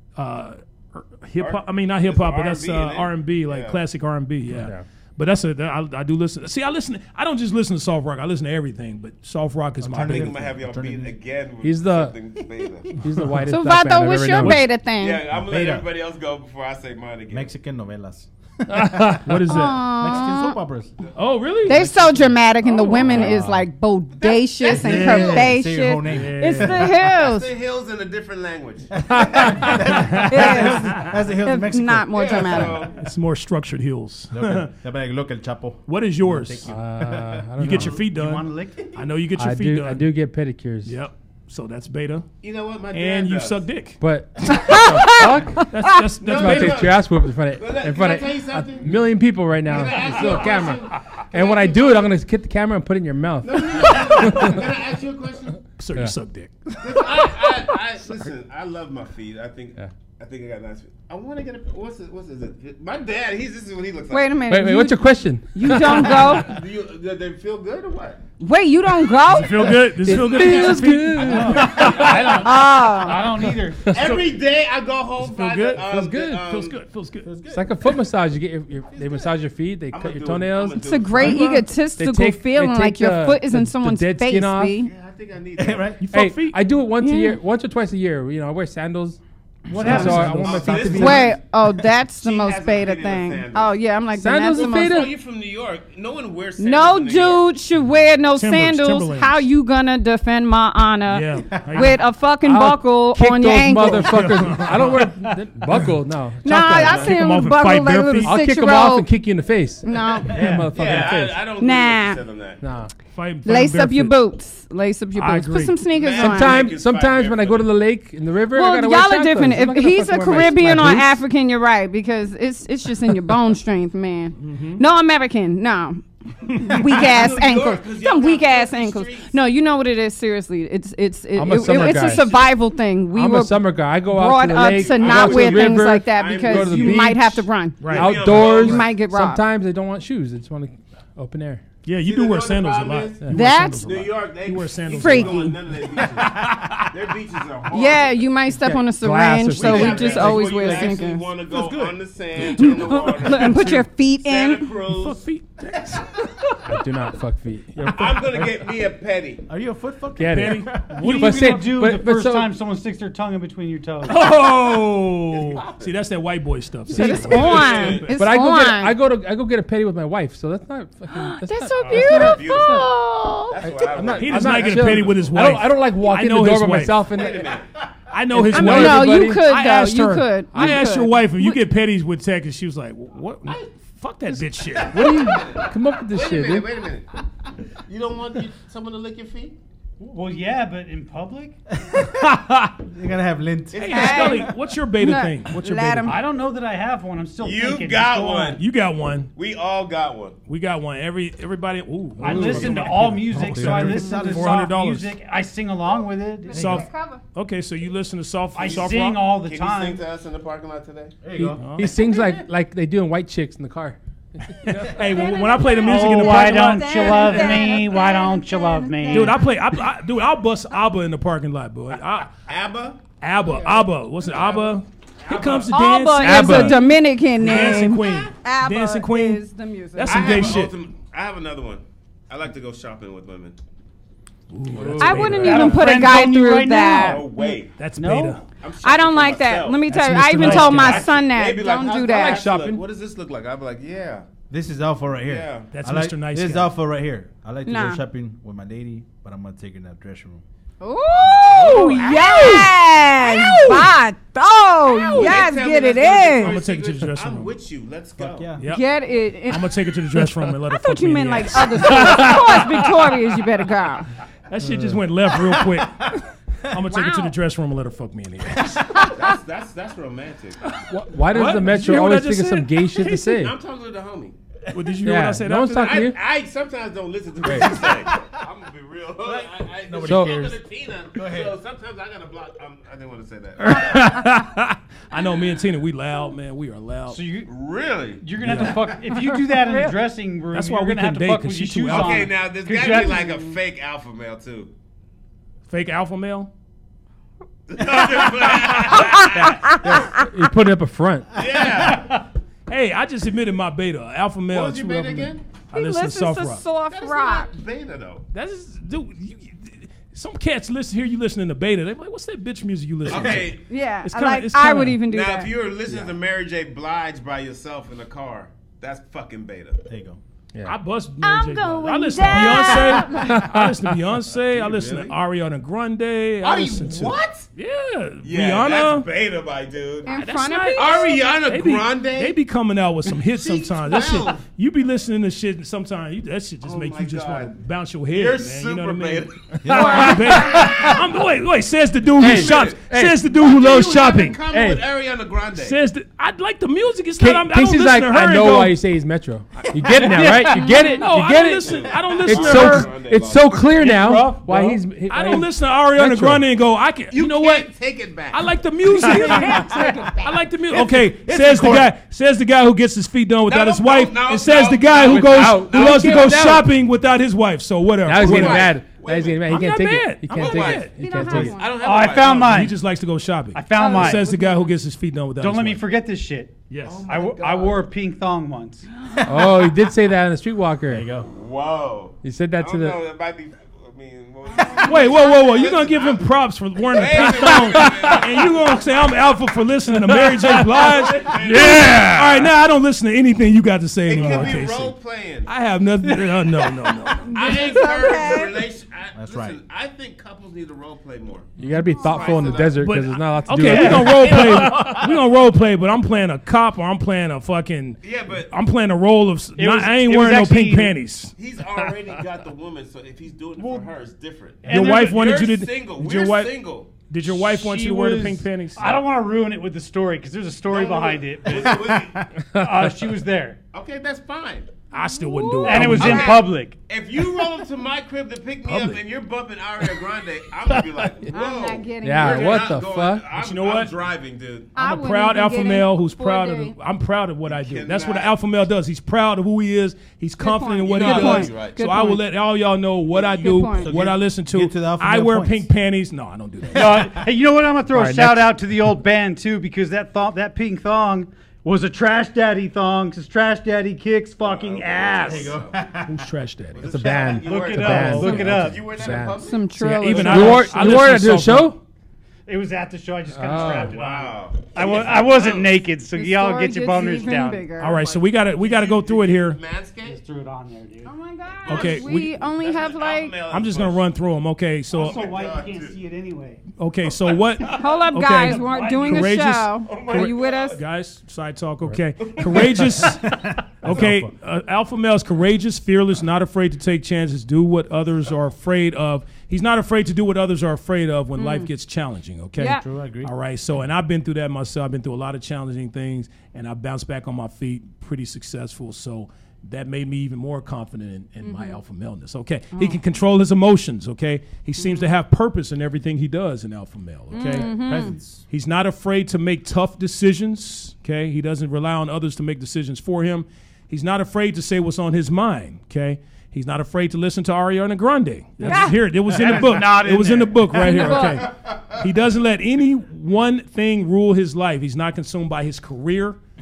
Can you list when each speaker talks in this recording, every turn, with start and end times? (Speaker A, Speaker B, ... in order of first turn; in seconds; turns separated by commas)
Speaker A: 0.2-10.3, Speaker B: 1.4-3.8, Speaker C: 4.5-4.8, Speaker D: 9.8-11.2, Speaker B: 9.9-13.0, Speaker C: 11.6-12.2, Speaker C: 13.0-14.7, Speaker E: 13.5-15.2, Speaker B: 15.0-17.5, Speaker D: 15.3-15.9, Speaker D: 17.3-20.9, Speaker A: 18.7-19.8, Speaker E: 19.5-20.6, Speaker A: 21.2-21.9, Speaker E: 21.7-27.5, Speaker B: 22.7-23.3, Speaker C: 23.1-23.6, Speaker B: 24.2-25.4, Speaker D: 24.6-26.9, Speaker A: 24.8-25.4, Speaker A: 26.1-26.8, Speaker B: 27.0-30.8, Speaker D: 28.9-32.8, Speaker A: 29.6-31.1, Speaker E: 30.3-32.9, Speaker B: 32.1-33.0, Speaker A: 33.0-34.7, Speaker D: 34.3-37.8, Speaker A: 35.9-36.7, Speaker C: 36.7-38.0, Speaker A: 37.6-40.1, Speaker F: 37.8-38.9, Speaker C: 39.4-41.0, Speaker A: 40.9-42.3, Speaker B: 42.4-43.6, Speaker A: 42.9-44.0, Speaker C: 44.0-45.7, Speaker E: 44.5-45.9, Speaker A: 45.6-46.9, Speaker B: 46.2-49.0, Speaker C: 46.3-54.6, Speaker B: 49.7-52.2, Speaker B: 53.4-55.6, Speaker A: 55.8-57.6, Speaker B: 56.8-64.4, Speaker E: 64.1-66.5, Speaker C: 64.5-66.3, Speaker B: 65.9-68.2, Speaker E: 68.4-69.9, Speaker A: 69.3-72.5, Speaker C: 70.0-71.9, Speaker B: 70.1-72.3, Speaker F: 71.2-73.9, Speaker E: 72.3-73.3, Speaker B: 73.9-76.8, Speaker A: 75.2-77.3, Speaker D: 77.2-77.8, Speaker C: 77.5-84.8, Speaker B: 79.0-79.3, Speaker B: 79.9-81.7, Speaker E: 80.8-84.9, Speaker B: 84.8-86.0, Speaker D: 85.6-86.0, Speaker A: 86.0-86.6, Speaker C: 86.1-89.2, Speaker E: 87.0-87.4, Speaker F: 89.7-91.1, Speaker D: 89.7-91.2, Speaker C: 89.7-91.3, Speaker B: 89.8-91.4, Speaker E: 90.9-95.1, Speaker B: 92.2-93.8, Speaker C: 94.1-95.1, Speaker B: 94.5-97.5, Speaker E: 96.6-104.5, Speaker A: 98.4-99.4, Speaker A: 101.1-102.0, Speaker C: 102.4-107.1, Speaker A: 104.0-105.1, Speaker E: 106.4-109.1, Speaker A: 106.5-108.4, Speaker C: 108.2-111.5, Speaker E: 109.8-110.4, Speaker F: 110.3-110.8, Speaker B: 110.7-112.6, Speaker E: 111.6-112.2, Speaker C: 112.6-112.9, Speaker A: 113.1-114.2, Speaker E: 113.5-116.7, Speaker A: 115.2-115.8, Speaker B: 115.9-117.7, Speaker C: 116.2-121.2, Speaker E: 118.5-139.4, Speaker A: 124.4-124.8, Speaker B: 126.7-129.3, Speaker C: 131.3-132.3, Speaker B: 131.6-132.5, Speaker C: 133.1-141.6, Speaker B: 134.6-137.2, Speaker A: 137.8-138.6, Speaker B: 137.9-138.9, Speaker A: 141.8-145.6, Speaker B: 142.0-148.3, Speaker E: 143.3-143.9, Speaker E: 144.9-145.6, Speaker A: 146.3-146.8, Speaker E: 147.7-151.3, Speaker C: 148.5-150.6, Speaker B: 149.5-155.2, Speaker D: 151.5-152.0, Speaker A: 152.4-153.8, Speaker E: 152.6-154.7, Speaker A: 154.9-156.6, Speaker C: 156.7-158.1, Speaker D: 157.8-158.7, Speaker B: 157.8-159.4, Speaker D: 159.5-161.0, Speaker C: 160.2-162.5, Speaker A: 160.3-161.4, Speaker F: 160.8-164.4, Speaker A: 164.1-168.2, Speaker B: 165.3-165.9, Speaker E: 166.9-169.0, Speaker C: 166.9-167.2, Speaker B: 167.2-168.1, Speaker C: 168.1-172.9, Speaker E: 171.1-173.6, Speaker B: 171.9-172.9, Speaker B: 173.5-175.6, Speaker C: 173.6-177.5, Speaker A: 174.1-177.1, Speaker B: 177.1-177.8, Speaker A: 178.1-185.4, Speaker C: 178.3-179.5, Speaker E: 178.5-181.6, Speaker B: 184.8-187.1, Speaker C: 184.9-186.7, Speaker B: 187.9-189.6, Speaker F: 190.0-191.6, Speaker D: 191.9-194.5, Speaker A: 192.2-192.7, Speaker B: 193.7-194.4, Speaker A: 193.8-196.2, Speaker E: 193.9-196.2, Speaker F: 196.1-198.6, Speaker B: 197.4-198.6, Speaker A: 198.6-199.3, Speaker B: 199.3-200.4, Speaker A: 200.5-205.2, Speaker F: 202.2-206.8, Speaker C: 202.2-203.0, Speaker D: 202.4-202.7, Speaker D: 203.3-204.6, Speaker E: 206.5-207.2, Speaker A: 206.5-209.2, Speaker F: 208.6-210.0, Speaker B: 208.6-211.2, Speaker D: 211.2-211.7, Speaker C: 211.4-215.0, Speaker A: 211.6-212.0, Speaker A: 214.6-217.7, Speaker E: 215.0-219.4, Speaker F: 215.8-219.4, Speaker A: 219.1-222.3, Speaker B: 222.5-223.0, Speaker A: 223.2-226.8, Speaker E: 223.4-223.8, Speaker B: 225.2-225.7, Speaker E: 225.7-230.6, Speaker C: 226.2-226.8, Speaker A: 227.4-229.4, Speaker A: 230.0-230.8, Speaker B: 230.1-233.6, Speaker A: 234.5-236.2, Speaker C: 234.8-235.6, Speaker E: 235.0-237.3, Speaker F: 235.1-237.4, Speaker B: 237.0-237.8, Speaker A: 237.8-238.4, Speaker F: 238.0-238.4, Speaker B: 238.6-239.9, Speaker E: 238.8-242.5, Speaker C: 239.9-241.0, Speaker A: 240.0-241.1, Speaker F: 240.1-241.1, Speaker B: 240.7-244.3, Speaker C: 242.1-242.8, Speaker D: 244.5-250.4, Speaker B: 245.2-245.7, Speaker A: 245.7-246.7, Speaker E: 247.7-248.0, Speaker E: 250.8-256.6, Speaker D: 251.3-252.0, Speaker A: 251.5-253.9, Speaker B: 251.6-252.6, Speaker B: 254.8-258.5, Speaker A: 255.1-255.5, Speaker A: 256.4-257.5, Speaker D: 258.2-258.6, Speaker A: 258.6-258.9, Speaker E: 258.7-259.7, Speaker A: 259.5-263.2, Speaker E: 260.8-264.1, Speaker A: 264.5-269.1, Speaker E: 266.8-267.3, Speaker B: 269.1-270.6, Speaker A: 270.7-273.2, Speaker C: 270.9-273.6, Speaker B: 273.0-274.4, Speaker A: 274.7-276.0, Speaker C: 275.1-276.2, Speaker B: 275.8-284.1, Speaker C: 277.4-277.7, Speaker D: 279.2-281.6, Speaker C: 280.0-280.5, Speaker A: 283.6-287.2, Speaker F: 287.1-287.5, Speaker B: 287.5-288.8, Speaker F: 288.2-293.4, Speaker A: 288.4-288.9, Speaker A: 290.5-292.3, Speaker B: 291.9-294.7, Speaker A: 295.7-296.5, Speaker B: 297.7-299.8, Speaker A: 298.1-299.5, Speaker E: 299.6-300.0, Speaker C: 300.1-301.3, Speaker B: 301.4-302.1, Speaker A: 302.7-306.6, Speaker B: 304.5-305.4, Speaker E: 305.7-307.5, Speaker B: 306.9-308.3, Speaker A: 308.3-315.0, Speaker B: 313.1-313.6, Speaker D: 313.1-313.4, Speaker E: 313.7-315.5, Speaker B: 315.1-319.9, Speaker D: 315.9-316.1, Speaker D: 319.9-320.2, Speaker A: 320.6-329.1, Speaker E: 321.2-323.3, Speaker C: 323.2-323.7, Speaker B: 324.5-325.1, Speaker B: 326.4-327.5, Speaker B: 328.2-330.2, Speaker E: 330.1-331.2, Speaker A: 330.2-344.4, Speaker B: 330.7-332.4, Speaker B: 333.3-334.4, Speaker B: 336.6-337.6, Speaker B: 338.1-340.0, Speaker D: 339.6-341.0, Speaker E: 339.7-340.8, Speaker B: 342.2-345.8, Speaker C: 342.2-342.5, Speaker D: 344.5-344.9, Speaker A: 345.6-348.8, Speaker C: 347.2-356.4, Speaker F: 349.8-351.0, Speaker E: 350.4-351.0, Speaker A: 351.0-352.9, Speaker B: 351.6-354.4, Speaker F: 353.8-354.6, Speaker A: 355.1-357.7, Speaker B: 357.1-360.4, Speaker A: 358.3-368.8, Speaker F: 359.0-360.1, Speaker E: 359.3-360.1, Speaker D: 360.7-361.9, Speaker B: 363.5-366.6, Speaker C: 365.0-366.7, Speaker C: 368.1-371.6, Speaker B: 368.2-369.7, Speaker A: 369.5-370.9, Speaker B: 370.3-372.6, Speaker E: 370.9-371.9, Speaker F: 371.7-372.8, Speaker A: 372.3-375.9, Speaker F: 373.6-374.3, Speaker E: 373.7-374.7, Speaker F: 375.4-378.9, Speaker A: 376.7-377.1, Speaker B: 376.8-377.9, Speaker C: 379.2-381.1, Speaker D: 380.9-381.3, Speaker B: 381.2-386.2, Speaker C: 382.2-383.0, Speaker E: 384.6-385.1, Speaker A: 384.8-394.9, Speaker B: 386.8-389.2, Speaker B: 390.7-392.5, Speaker C: 391.1-392.2, Speaker B: 394.1-395.5, Speaker A: 395.5-397.8, Speaker E: 397.2-398.6, Speaker B: 397.2-402.9, Speaker D: 399.1-399.6, Speaker C: 401.6-405.0, Speaker E: 401.9-402.6, Speaker A: 402.8-412.2, Speaker F: 403.6-404.6, Speaker B: 404.1-405.1, Speaker B: 408.0-408.5, Speaker F: 409.6-411.0, Speaker B: 411.4-416.9, Speaker F: 413.6-413.9, Speaker F: 414.6-415.4, Speaker A: 414.7-419.0, Speaker F: 417.3-423.6, Speaker B: 420.7-422.3, Speaker B: 423.7-424.7, Speaker A: 424.9-426.4, Speaker E: 424.9-425.9, Speaker F: 425.6-426.8, Speaker B: 425.9-434.7, Speaker A: 428.6-429.0, Speaker E: 431.3-432.8, Speaker C: 432.0-433.2, Speaker A: 433.3-433.9, Speaker E: 434.8-436.7, Speaker A: 434.8-447.2, Speaker B: 437.4-438.3, Speaker E: 440.4-442.2, Speaker B: 440.9-441.8, Speaker E: 443.2-443.9, Speaker D: 443.8-445.7, Speaker F: 446.7-455.6, Speaker D: 446.8-447.1, Speaker C: 447.9-448.5, Speaker B: 454.4-455.9, Speaker D: 455.2-456.2, Speaker A: 456.1-456.9, Speaker B: 456.7-460.8, Speaker C: 456.8-461.8, Speaker F: 457.3-459.0, Speaker A: 457.8-458.4, Speaker E: 459.4-461.0, Speaker A: 460.0-461.8, Speaker F: 462.5-467.8, Speaker C: 463.3-464.0, Speaker B: 463.5-465.8, Speaker E: 466.1-468.2, Speaker A: 467.8-469.6, Speaker B: 468.2-470.2, Speaker F: 470.0-471.1, Speaker E: 471.1-473.4, Speaker B: 471.6-474.1, Speaker A: 471.7-472.4, Speaker A: 473.5-475.2, Speaker B: 474.9-475.9, Speaker F: 474.9-476.6, Speaker A: 476.8-526.4, Speaker B: 477.1-477.9, Speaker E: 477.7-480.8, Speaker F: 478.5-479.3, Speaker B: 479.9-480.8, Speaker B: 482.3-482.9, Speaker D: 483.0-484.3, Speaker E: 491.4-491.7, Speaker E: 492.6-492.8, Speaker D: 492.8-493.3, Speaker E: 501.4-501.8, Speaker E: 502.7-503.0, Speaker E: 504.8-505.1, Speaker E: 507.3-508.2, Speaker D: 507.3-508.4, Speaker E: 518.6-519.0, Speaker F: 518.7-520.9, Speaker E: 520.8-521.5